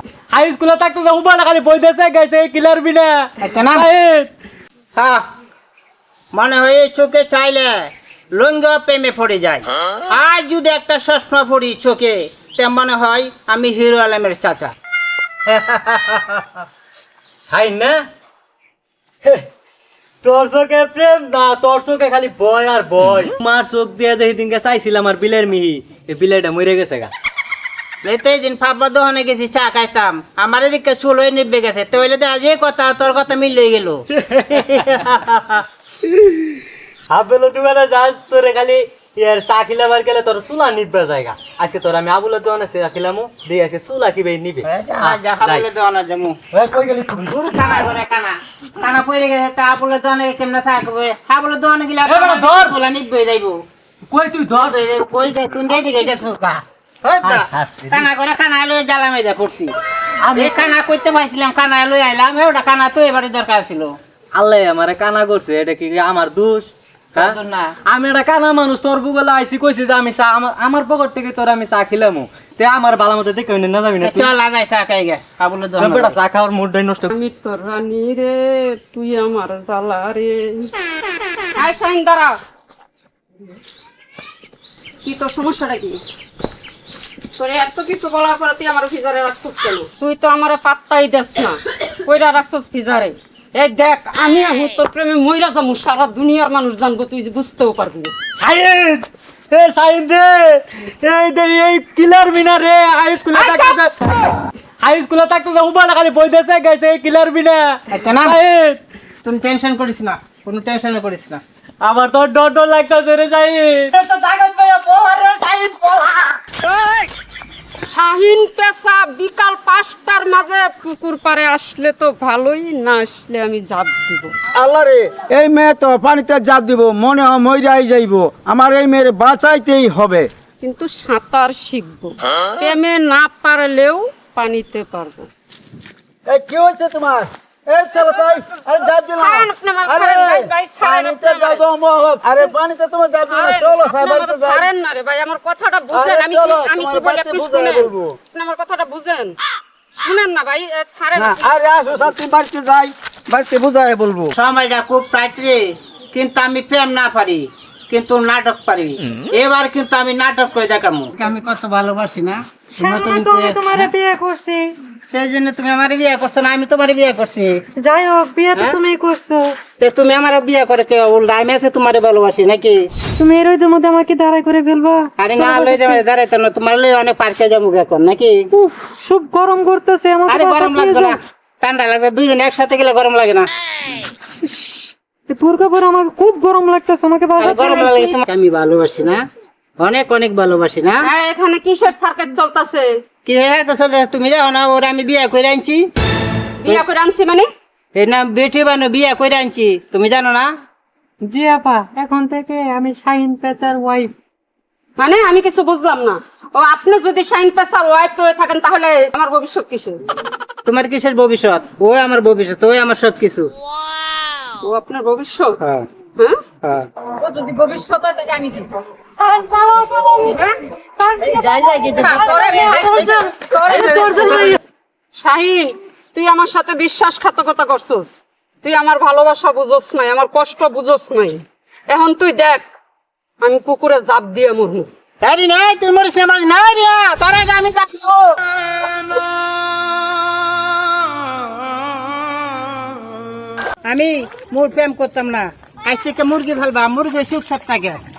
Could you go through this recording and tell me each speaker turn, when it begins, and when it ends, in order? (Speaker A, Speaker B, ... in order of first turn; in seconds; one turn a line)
Speaker A: 0.3-4.3
Speaker B: 3.4-3.9
Speaker B: 6.3-14.7
Speaker B: 15.5-16.4
Speaker A: 17.5-18.0
Speaker A: 20.2-27.1
Speaker B: 28.0-35.6
Speaker A: 34.2-35.1
Speaker A: 37.1-45.6
Speaker B: 44.6-46.4
Speaker A: 46.5-47.5
Speaker B: 47.3-53.6
Speaker A: 52.0-52.8
Speaker A: 54.1-54.8
Speaker B: 54.5-59.7
Speaker A: 57.2-58.1
Speaker A: 60.2-60.8
Speaker B: 60.3-63.9
Speaker A: 64.3-74.3
Speaker B: 67.2-67.4
Speaker B: 74.0-76.2
Speaker A: 75.8-77.1
Speaker C: 77.1-80.7
Speaker C: 81.5-82.4
Speaker C: 85.0-86.0
Speaker C: 87.4-98.1
Speaker A: 98.4-104.3
Speaker C: 103.4-103.8
Speaker A: 104.8-108.8
Speaker B: 107.9-108.4
Speaker B: 109.2-111.4
Speaker A: 111.8-117.1
Speaker C: 117.8-124.3
Speaker D: 124.5-130.3
Speaker C: 130.6-135.3
Speaker D: 136.3-144.7
Speaker C: 137.9-141.7
Speaker C: 143.2-149.4
Speaker D: 145.9-148.2
Speaker C: 149.9-152.2
Speaker D: 151.2-154.3
Speaker B: 154.3-155.6
Speaker B: 156.1-163.9
Speaker E: 162.8-164.7
Speaker B: 165.1-167.6
Speaker E: 167.8-169.6
Speaker B: 169.8-172.8
Speaker E: 173.2-176.0
Speaker B: 175.2-178.5
Speaker E: 178.5-181.2
Speaker B: 180.3-183.5
Speaker E: 185.3-188.1
Speaker B: 187.4-189.2
Speaker B: 189.8-191.1
Speaker C: 191.0-192.9
Speaker B: 193.3-195.9
Speaker C: 196.6-197.5
Speaker B: 197.9-200.5
Speaker E: 201.3-204.1
Speaker C: 205.0-210.0
Speaker B: 210.7-213.5
Speaker C: 214.6-215.6
Speaker C: 217.2-218.7
Speaker E: 219.2-224.6
Speaker B: 221.2-223.1
Speaker C: 222.0-224.6
Speaker B: 223.7-224.6
Speaker C: 225.2-232.7
Speaker C: 233.4-234.9
Speaker B: 235.2-238.4
Speaker B: 243.9-248.0